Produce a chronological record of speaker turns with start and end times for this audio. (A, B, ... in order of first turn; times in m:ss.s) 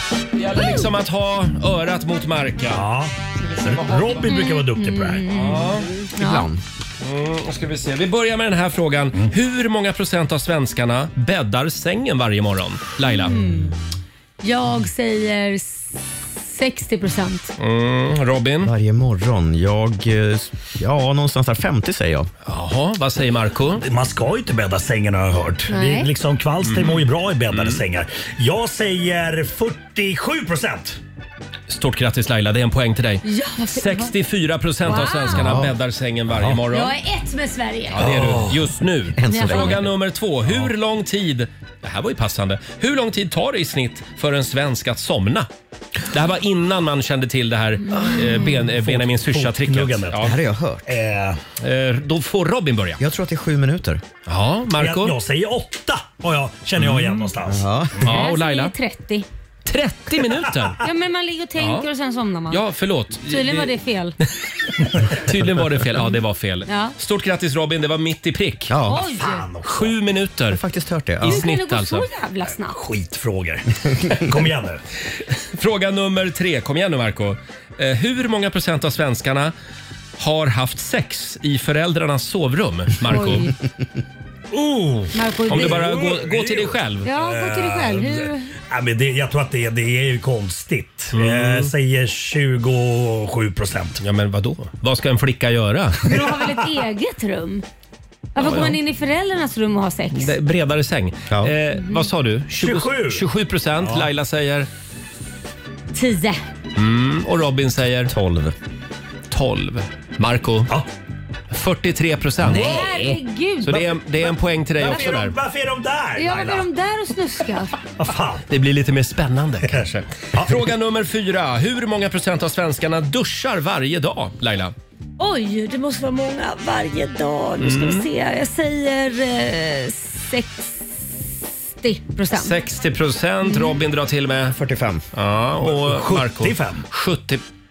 0:00.4-0:02.9 A
0:02.7-0:05.2 B
0:03.5-0:04.3 A
0:04.3-0:06.5 C
0:05.3-0:05.9 A
0:06.2-0:06.6 D
0:07.0-0:13.5 A
0:13.0-0:13.7 C
0:14.4-0:17.5 C
0:17.6-0:18.7 A
0:18.6-0:22.3 D
0:22.5-0:23.8 A
0:23.8-0:31.0 B
0:25.7-0:26.1 C
0:26.6-0:27.8 A
0:31.7-0:37.0 A
0:33.2-0:34.1 C
0:34.8-0:35.6 C
0:35.3-0:35.7 D
0:36.7-0:38.0 C
0:37.9-0:45.5 A
0:38.0-0:38.6 B
0:39.2-0:39.9 D
0:39.3-0:39.8 C
0:46.1-0:50.4 A
0:47.9-0:48.4 C
0:48.6-0:50.3 B
0:50.2-0:50.8 D
0:50.9-0:51.4 B
0:51.6-0:53.0 A
0:53.0-0:54.0 D
0:54.3-0:55.2 A
0:54.8-0:57.6 B
0:56.8-0:57.2 A
0:57.4-0:58.1 D
0:58.0-0:58.7 A
0:58.1-0:59.3 C
0:59.7-1:00.8 A
1:00.8-1:02.6 C
1:01.6-1:01.9 A
1:02.5-1:03.7 A
1:03.3-1:04.2 C
1:05.1-1:08.7 A
1:06.7-1:06.9 C
1:08.7-1:09.1 D
1:08.9-1:09.4 C
1:09.0-1:10.0 B
1:09.7-1:10.6 A
1:10.5-1:11.5 D
1:11.2-1:12.1 A
1:11.2-1:12.8 C
1:12.7-1:14.8 B
1:15.6-1:19.5 A
1:20.2-1:23.5 A
1:23.1-1:23.5 C
1:24.5-1:34.0 B
1:25.1-1:25.9 C
1:25.5-1:27.1 A
1:27.0-1:28.5 C
1:31.1-1:31.7 A
1:34.0-1:36.1 A
1:36.0-1:37.6 C
1:36.0-1:36.6 B
1:38.4-1:40.3 C
1:38.4-1:38.8 A
1:40.1-1:44.7 A
1:41.8-1:42.1 C
1:42.6-1:43.2 B
1:43.8-1:44.1 B
1:45.9-1:46.4 C
1:46.8-1:48.1 A
1:48.1-1:48.6 D
1:49.3-1:50.7 A
1:51.5-1:52.9 A
1:52.4-1:53.2 D
1:52.5-1:53.9 C
1:53.6-1:55.4 A
1:54.3-1:56.7 B
1:56.2-1:57.7 C
1:58.0-1:58.4 B
1:58.5-2:04.7 A
2:00.3-2:00.6 B
2:05.2-2:10.9 C
2:07.6-2:08.1 A
2:11.8-2:12.6 C
2:12.3-2:14.6 A
2:13.4-2:13.8 C
2:14.5-2:15.0 D
2:15.1-2:17.4 A
2:15.6-2:16.8 B